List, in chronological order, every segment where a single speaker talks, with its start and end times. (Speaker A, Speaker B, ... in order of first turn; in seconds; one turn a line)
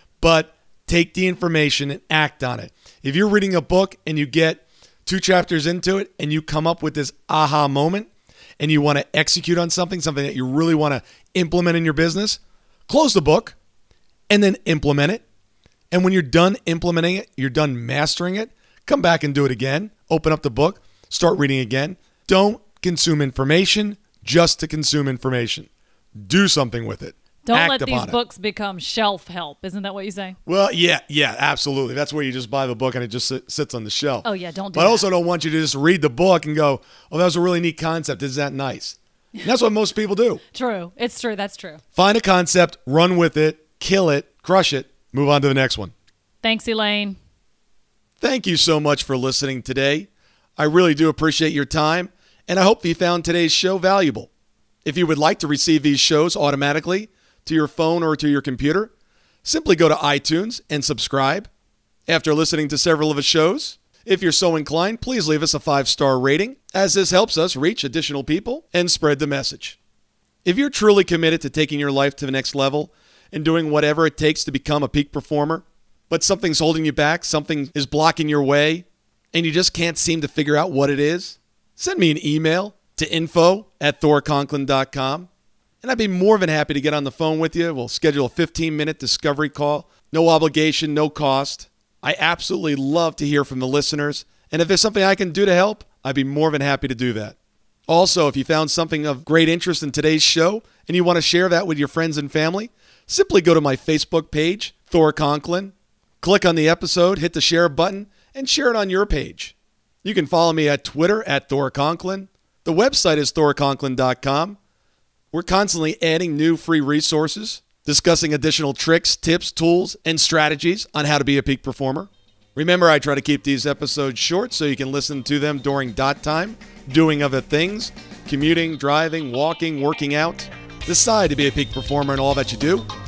Speaker A: 0.2-13.6
Speaker A: 14.3-15.2
Speaker A: 15.9-25.7
Speaker A: 26.2-28.2
Speaker B: 27.4-30.4
Speaker A: 30.4-40.4
Speaker B: 34.2-35.1
Speaker B: 40.5-41.8
Speaker A: 41.9-45.9
Speaker B: 46.4-47.2
Speaker A: 48.2-54.3
Speaker A: 54.8-58.9
Speaker A: 59.4-61.5
Speaker A: 62.1-69.8
Speaker A: 70.4-85.3
Speaker A: 85.8-97.3
Speaker A: 97.9-114.6
Speaker A: 115.3-132.9